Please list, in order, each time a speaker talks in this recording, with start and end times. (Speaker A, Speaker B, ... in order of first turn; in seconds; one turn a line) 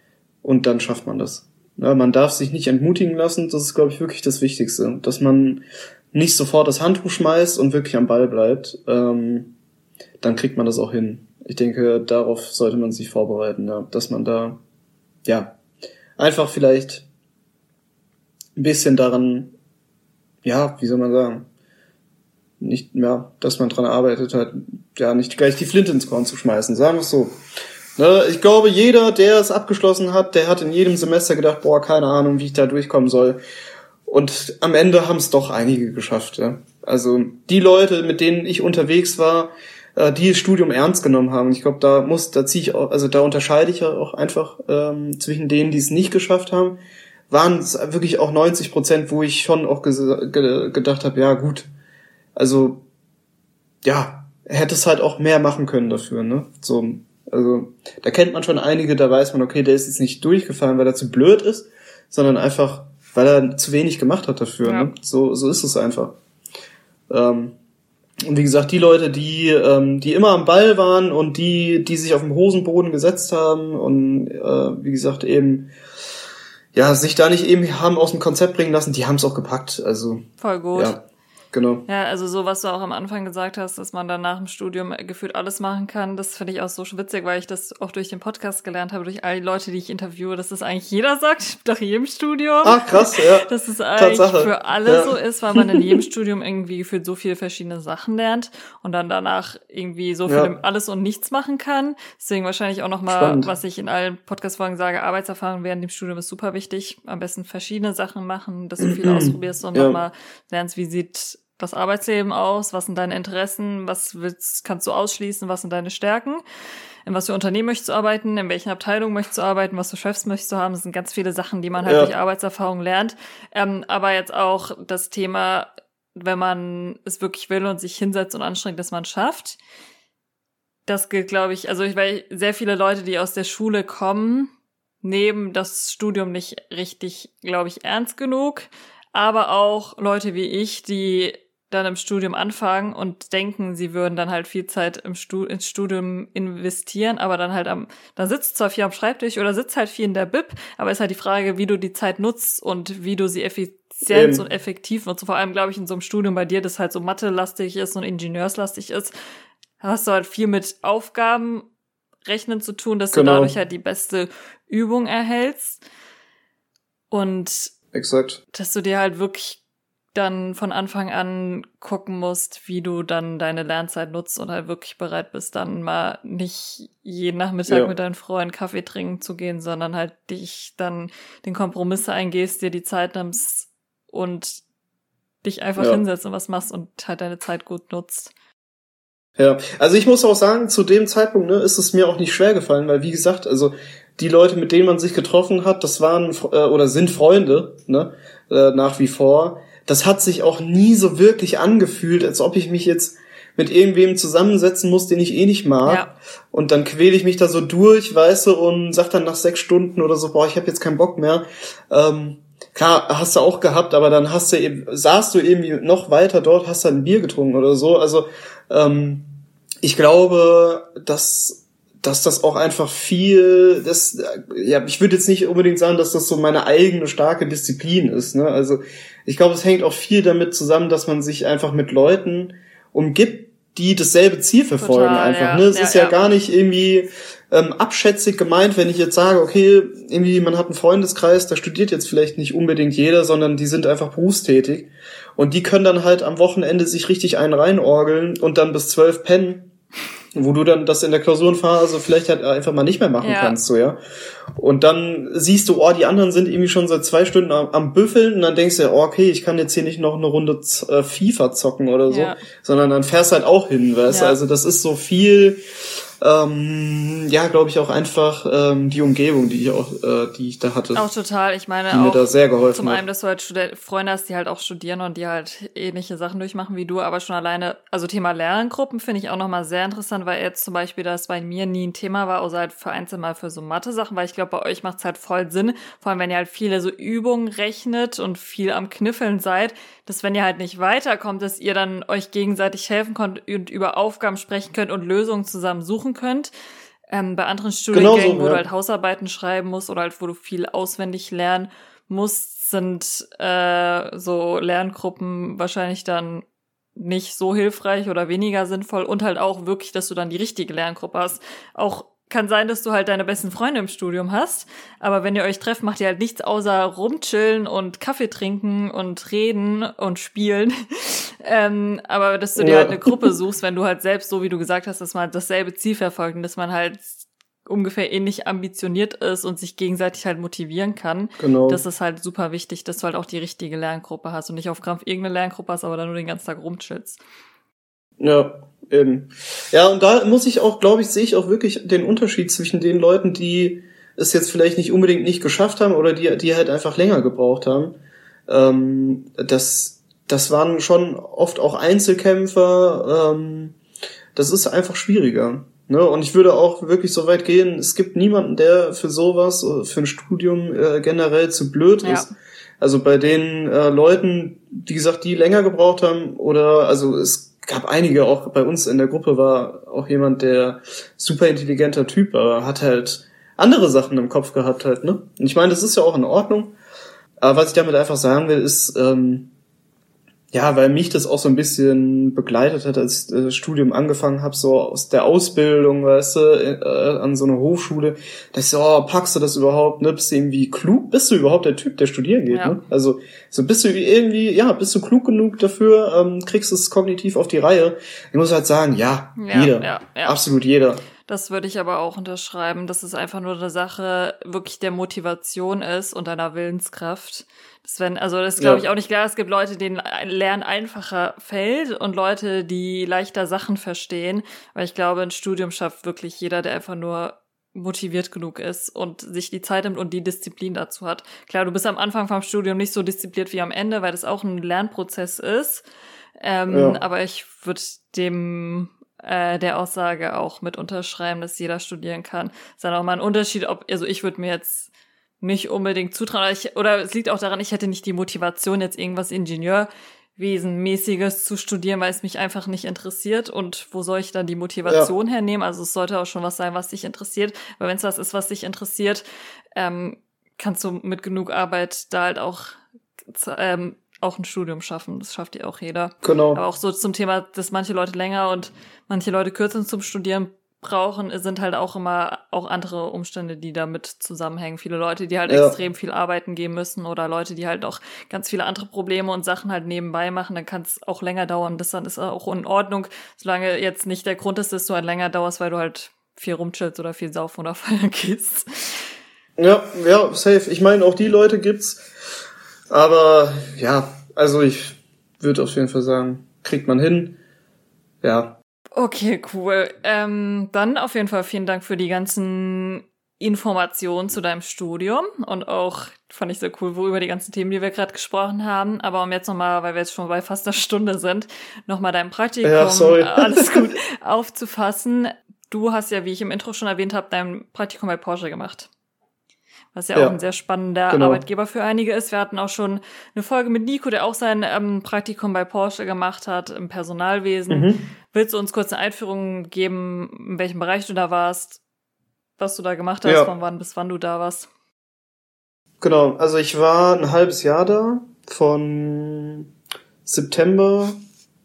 Speaker A: 0.4-9.5
Speaker A: 10.2-14.6
Speaker A: 15.3-15.6
Speaker A: 16.2-17.1
Speaker A: 18.6-19.5
Speaker A: 20.4-21.5
Speaker A: 22.6-27.4
Speaker A: 28.0-33.4
Speaker A: 34.1-46.8
Speaker A: 47.3-51.7
Speaker A: 52.4-52.8
Speaker A: 53.8-66.2
Speaker B: 64.6-64.9
Speaker A: 67.1-67.6
Speaker A: 68.3-75.7
Speaker A: 76.7-81.8
Speaker B: 80.4-81.0
Speaker B: 81.9-116.4
Speaker A: 92.6-96.0
Speaker A: 100.3-100.5
Speaker A: 103.1-103.5
Speaker A: 108.8-110.0
Speaker B: 117.1-129.6
Speaker A: 121.8-122.1
Speaker B: 130.9-159.1
Speaker A: 154.1-154.4
Speaker B: 159.8-161.7
Speaker B: 162.3-165.8
Speaker A: 163.1-163.6
Speaker B: 167.1-167.7
Speaker A: 167.9-168.4
Speaker B: 168.5-169.6
Speaker B: 170.1-184.6
Speaker A: 177.7-177.9
Speaker B: 185.4-188.3
Speaker A: 185.8-186.0
Speaker A: 189.4-219.3
Speaker B: 205.8-206.1
Speaker A: 219.8-249.7
Speaker B: 234.8-236.4
Speaker A: 250.3-254.0
Speaker B: 253.2-253.6
Speaker A: 254.6-265.6
Speaker B: 262.1-262.4
Speaker B: 264.1-264.4
Speaker A: 266.2-271.0
Speaker B: 270.9-296.5
Speaker A: 271.9-273.0
Speaker B: 297.1-306.4
Speaker A: 297.9-298.6
Speaker B: 307.0-337.2
Speaker A: 322.6-323.3
Speaker A: 331.4-331.8
Speaker A: 338.2-353.8
Speaker A: 354.4-376.8
Speaker B: 362.0-362.3
Speaker A: 377.4-379.5
Speaker A: 380.5-401.1
Speaker B: 392.5-392.8
Speaker B: 399.4-400.4
Speaker B: 401.3-425.8
Speaker A: 408.6-408.8
Speaker B: 426.4-434.9
Speaker A: 426.7-427.0
Speaker B: 435.4-449.2
Speaker A: 444.9-445.1
Speaker B: 449.8-452.8
Speaker B: 453.3-479.1
Speaker A: 456.2-456.6
Speaker A: 465.5-465.8
Speaker A: 479.6-482.1
Speaker A: 482.9-487.4
Speaker A: 488.2-488.6
Speaker B: 488.9-508.9
Speaker A: 502.6-503.9
Speaker B: 509.9-521.8
Speaker A: 511.1-511.4
Speaker A: 517.7-518.1
Speaker B: 522.6-524.7
Speaker A: 523.2-523.5
Speaker A: 526.0-529.7
Speaker A: 530.2-531.2